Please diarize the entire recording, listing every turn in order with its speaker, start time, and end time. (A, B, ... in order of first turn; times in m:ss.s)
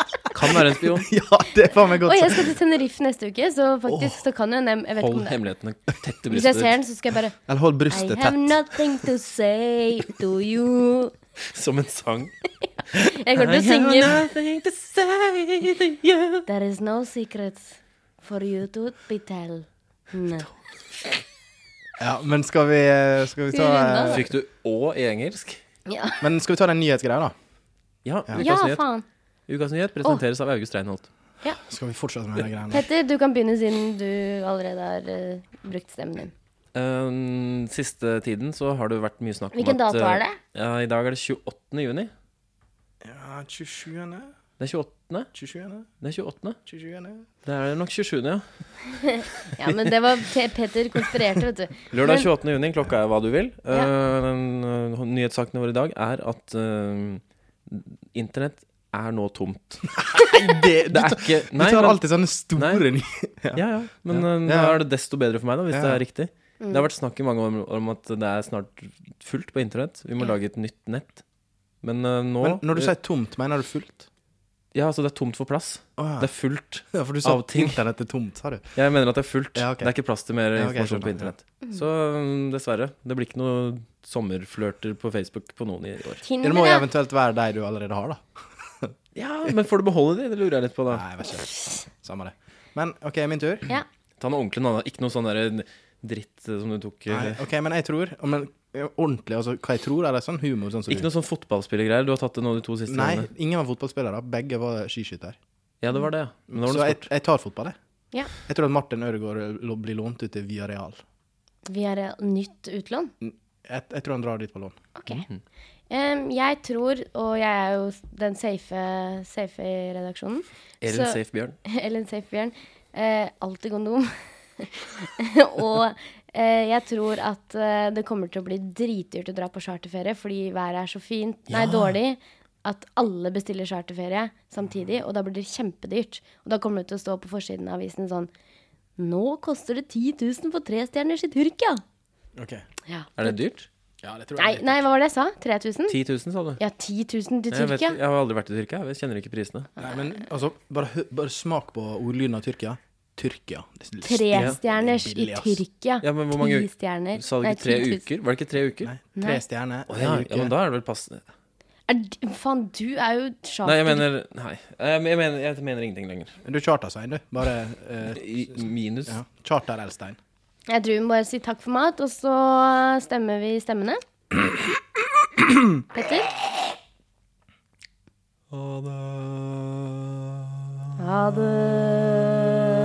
0:00.3-0:01.1 A
0:00.3-0:02.6 B
0:02.0-0:05.4 C
0:03.8-0:04.2 B
0:05.0-0:06.8 A
0:06.3-0:07.4 C
0:07.4-0:09.0 B
0:07.9-0:11.1 C
0:11.5-0:12.3 A
0:12.9-0:14.3 C
0:12.9-0:16.4 A
0:16.4-0:20.5 C
0:22.0-0:24.3 B
0:23.5-0:24.2 C
0:24.1-0:25.6 A
0:25.9-0:26.2 C
0:26.2-0:27.3 B
0:28.0-0:28.8 A
0:28.4-0:29.0 C
0:29.5-0:31.1 A
0:31.6-0:32.8 B
0:32.7-0:36.3 C
0:36.7-0:42.1 A
0:39.5-0:40.4 C
0:43.0-0:44.3 B
0:44.6-0:45.3 A
0:45.3-0:45.9 B
0:46.0-0:46.6 A
0:46.6-0:47.3 B
0:47.4-0:48.4 A
0:48.9-0:52.3 C
0:49.6-0:49.9 A
0:51.9-1:00.2 A
1:00.0-1:04.8 B
1:00.9-1:02.0 A
1:02.6-1:02.8 A
1:03.5-1:11.2 A
1:05.7-1:06.0 B
1:06.6-1:06.9 C
1:11.8-1:12.9 A
1:12.4-1:14.0 B
1:14.7-1:17.8 A
1:16.0-1:16.3 B
1:16.9-1:18.6 B
1:18.7-1:26.2 A
1:19.5-1:19.9 B
1:20.5-1:21.3 B
1:26.2-1:26.9 C
1:26.4-1:28.9 B
1:29.1-1:31.0 A
1:30.9-1:33.7 B
1:34.2-1:37.4 A
1:37.1-1:41.1 B
1:40.9-1:43.3 A
1:42.9-1:45.4 B
1:45.8-1:47.0 A
1:46.5-1:47.8 B
1:48.4-1:51.0 B
1:51.6-1:53.1 C
1:53.2-1:54.8 B
1:55.0-1:55.3 C
1:55.1-1:55.4 A
1:55.9-2:18.3 C
2:00.8-2:01.6 A
2:11.5-2:12.0 A
2:19.0-2:21.8 C
2:22.4-2:22.6 B
2:22.8-2:23.4 C
2:23.2-2:23.7 A
2:24.0-2:24.8 B
2:24.4-2:26.0 C
2:25.9-2:26.6 A
2:26.6-2:28.0 C
2:27.5-2:29.7 A
2:29.8-2:35.6 B
2:34.0-2:38.0 C
2:34.3-2:34.6 A
2:36.0-2:38.9 A
2:38.8-2:40.5 B
2:39.2-2:39.4 C
2:39.9-2:41.2 A
2:41.9-2:44.1 C
2:43.6-2:46.3 A
2:46.4-2:50.2 B
2:48.1-2:49.2 A
2:50.7-2:54.0 C
2:55.2-2:55.8 B
2:55.9-2:56.3 C
2:58.5-3:00.6 A
3:01.0-3:02.6 C